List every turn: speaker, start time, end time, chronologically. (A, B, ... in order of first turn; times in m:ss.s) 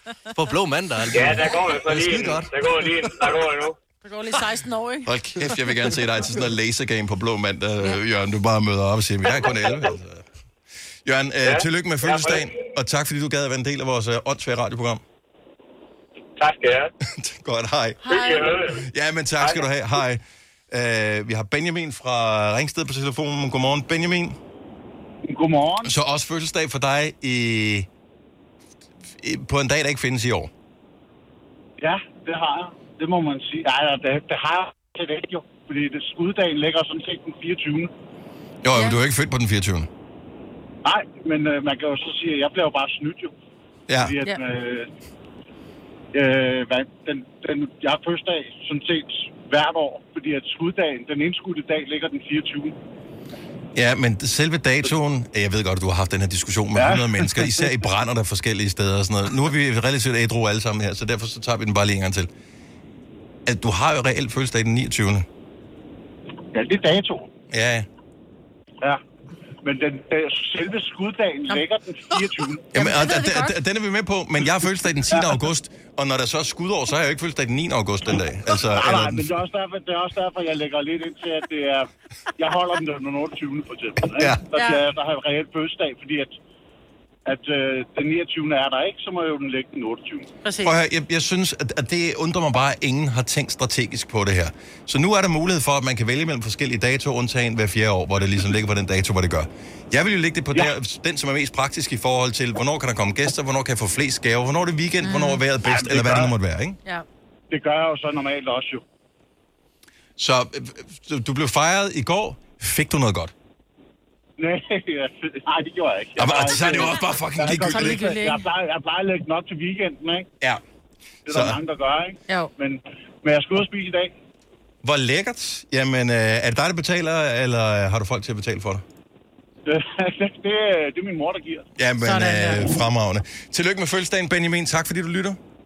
0:00.3-0:03.3 A
0:01.1-0:03.8 B
0:04.0-0:05.1 C
0:05.0-0:10.2 D
0:11.0-0:15.0 D
0:11.4-0:12.5 B
0:16.4-0:16.9 B
0:17.1-0:24.4 D
0:18.0-0:18.5 C
0:18.0-0:18.8 B
0:25.3-0:25.9 E
0:25.8-0:27.9 D
0:29.2-0:30.5 D
0:31.8-0:37.9 E
0:38.6-0:39.9 D
0:40.8-0:43.3 E
0:43.9-0:44.2 D
0:44.0-0:44.9 E
0:46.1-0:52.7 E
0:53.7-1:02.3 D
0:56.7-0:57.8 E
1:03.4-1:05.3 D
1:06.5-1:07.3 E
1:07.5-1:07.9 D
1:09.6-1:12.7 E
1:12.7-1:19.3 D
1:12.8-1:13.5 C
1:15.1-1:15.4 E
1:18.7-1:26.3 E
1:24.1-1:24.4 D
1:27.3-1:30.3 E
1:30.4-1:30.7 C
1:30.6-1:46.8 D
1:45.0-1:45.4 C
1:45.6-1:46.3 E
1:47.5-1:48.8 E
1:50.2-1:53.3 D
1:54.4-2:00.3 E
1:56.2-1:58.2 D
1:57.7-1:58.4 C
2:01.3-2:01.6 D
2:01.3-2:04.1 E
2:04.8-2:08.8 D
2:09.6-2:11.7 E
2:11.8-2:15.4 D
2:12.0-2:12.8 C